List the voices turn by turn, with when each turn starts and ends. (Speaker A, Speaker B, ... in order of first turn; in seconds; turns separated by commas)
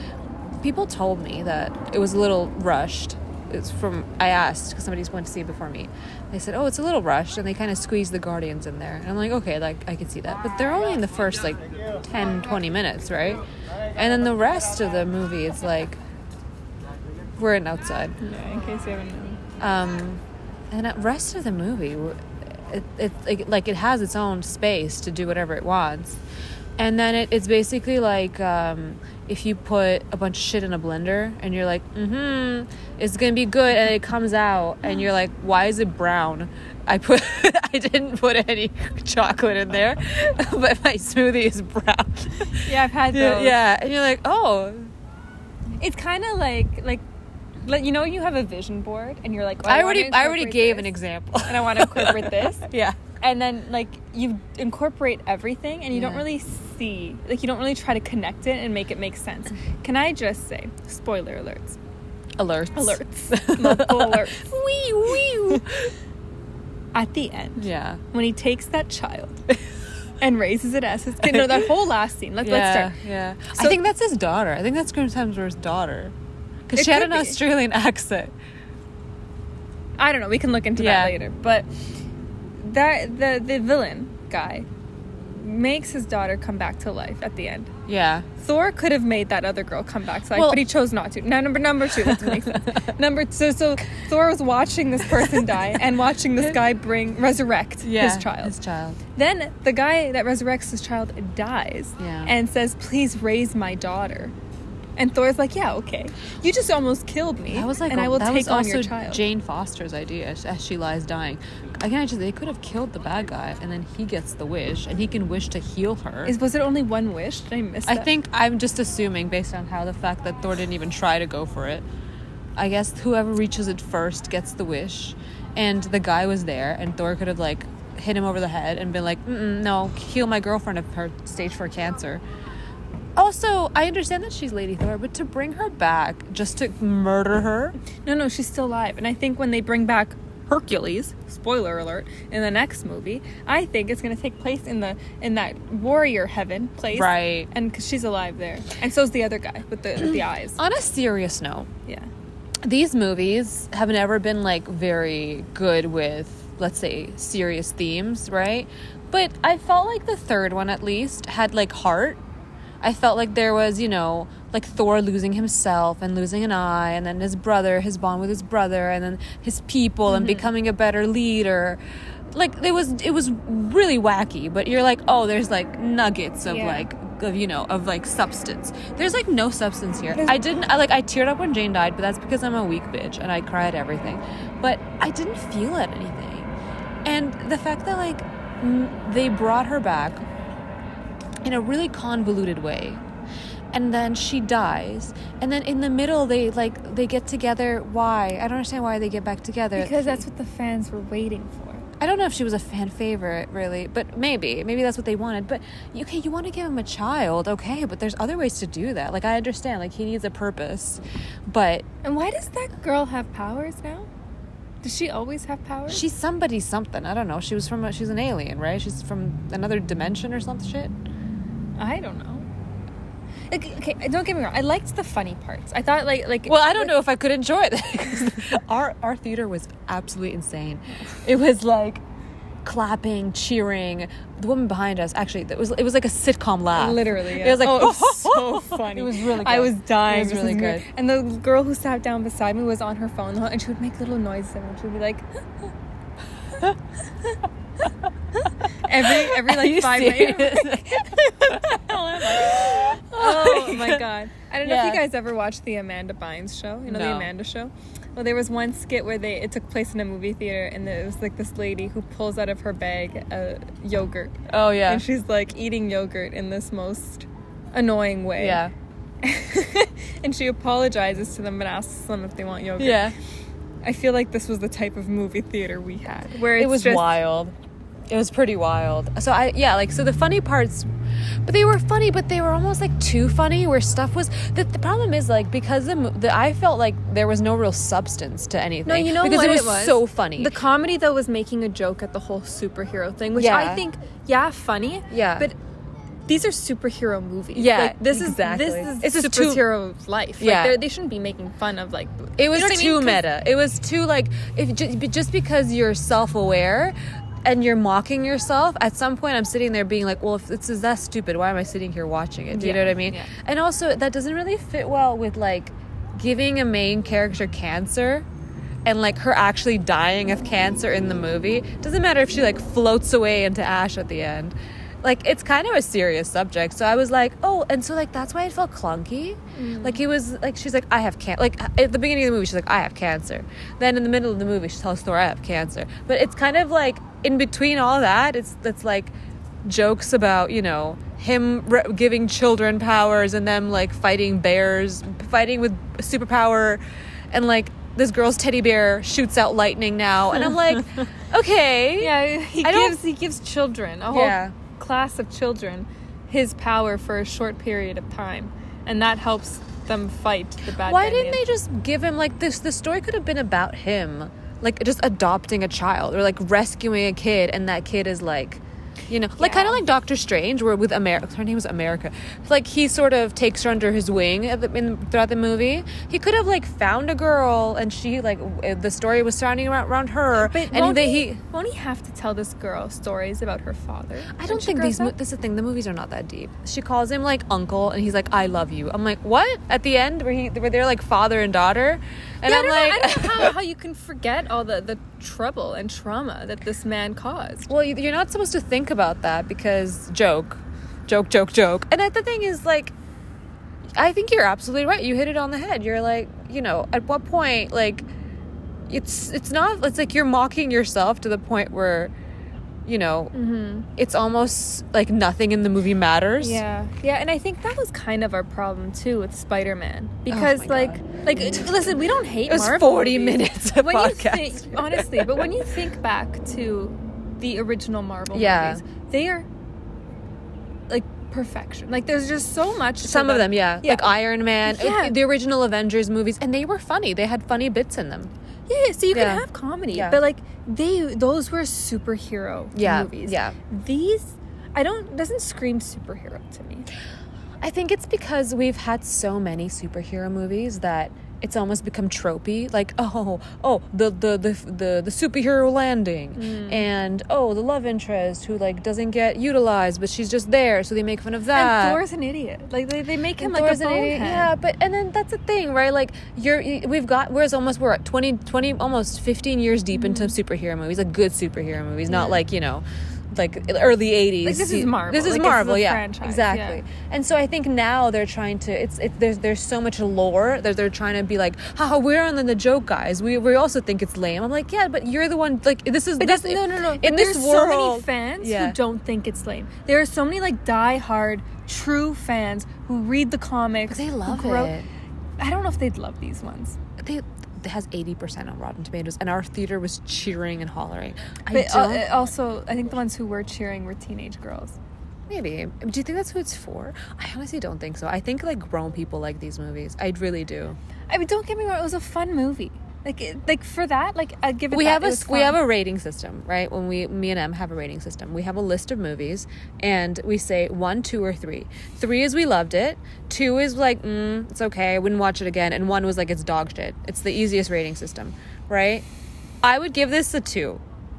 Speaker A: 0.6-13.4, Speaker A: 13.9-16.0, Speaker A: 17.4-18.1, Speaker B: 18.2-19.4, Speaker A: 19.6-26.2, Speaker A: 26.8-42.5, Speaker B: 42.5-43.6, Speaker A: 43.1-44.9, Speaker B: 45.8-47.0, Speaker B: 47.6-52.6, Speaker A: 49.6-53.0, Speaker B: 53.2-61.8, Speaker A: 55.9-56.3, Speaker A: 62.4-65.9, Speaker B: 62.7-64.5, Speaker B: 65.1-65.6, Speaker B: 66.9-69.4, Speaker A: 67.6-68.0, Speaker B: 70.2-73.0, Speaker A: 72.4-76.1, Speaker B: 73.5-73.8, Speaker A: 76.7-78.3, Speaker B: 76.7-77.4, Speaker B: 80.0-81.7, Speaker A: 80.8-81.1, Speaker B: 82.6-84.7, Speaker B: 85.3-87.7, Speaker A: 87.9-88.2, Speaker B: 88.4-98.5, Speaker A: 90.3-90.6, Speaker A: 92.0-92.8, Speaker A: 97.8-99.0, Speaker B: 99.2-104.3, Speaker A: 102.0-102.3, Speaker B: 105.0-109.2, Speaker A: 107.5-116.3, Speaker B: 116.2-118.1, Speaker A: 117.8-121.8, Speaker A: 122.6-132.2, Speaker A: 133.2-137.8, Speaker B: 138.0-150.6, Speaker A: 146.9-147.5, Speaker A: 150.6-151.7, Speaker A: 152.6-162.2, Speaker A: 162.8-186.5, Speaker B: 170.1-170.5, Speaker B: 176.4-176.9, Speaker A: 187.0-190.2, Speaker A: 191.4-193.0, Speaker A: 193.7-200.2, Speaker B: 199.8-201.8, Speaker A: 202.0-211.8, Speaker B: 212.0-214.1, Speaker B: 214.8-216.0, Speaker A: 215.9-220.9, Speaker B: 221.8-222.5, Speaker B: 223.5-226.9, Speaker A: 226.5-232.0, Speaker A: 232.6-240.8, Speaker B: 236.7-245.2, Speaker B: 248.4-268.6, Speaker A: 248.9-254.0, Speaker A: 254.6-255.0, Speaker A: 256.9-257.3, Speaker A: 264.5-265.0, Speaker A: 268.4-268.7, Speaker B: 269.2-273.1, Speaker A: 272.8-273.1, Speaker B: 273.8-277.1, Speaker A: 276.5-277.5, Speaker A: 278.1-280.9, Speaker A: 281.4-290.5, Speaker B: 288.8-295.6, Speaker A: 293.3-293.8, Speaker A: 295.1-295.5, Speaker B: 296.3-303.2, Speaker A: 297.5-299.6, Speaker A: 300.4-300.8, Speaker A: 302.4-318.2, Speaker B: 312.5-313.3, Speaker A: 318.8-339.1, Speaker B: 329.6-330.0, Speaker A: 339.6-353.0, Speaker B: 350.4-350.8, Speaker B: 352.0-361.4, Speaker A: 354.1-354.5, Speaker A: 360.8-381.4, Speaker B: 369.4-369.8, Speaker B: 380.3-385.1, Speaker A: 384.3-393.5, Speaker B: 392.4-397.7, Speaker A: 397.7-402.9, Speaker A: 404.0-408.1, Speaker A: 408.9-412.1, Speaker A: 412.8-413.3, Speaker B: 413.3-413.9, Speaker A: 414.0-416.6, Speaker B: 416.4-429.5, Speaker A: 420.3-421.0, Speaker A: 422.4-425.6, Speaker A: 428.3-428.8, Speaker B: 430.9-435.1, Speaker A: 433.0-438.3, Speaker B: 438.7-446.9, Speaker A: 439.1-440.2, Speaker A: 442.7-443.5, Speaker A: 447.6-462.0, Speaker B: 456.3-456.9, Speaker B: 461.5-464.5, Speaker A: 463.4-488.8, Speaker B: 469.9-470.4, Speaker B: 472.1-472.4, Speaker B: 474.4-476.8, Speaker B: 486.2-494.7, Speaker A: 493.9-494.9, Speaker B: 495.4-496.8, Speaker A: 497.0-502.1, Speaker B: 501.5-504.8, Speaker A: 505.3-510.8, Speaker B: 511.1-515.6, Speaker A: 514.7-529.0, Speaker A: 529.6-530.8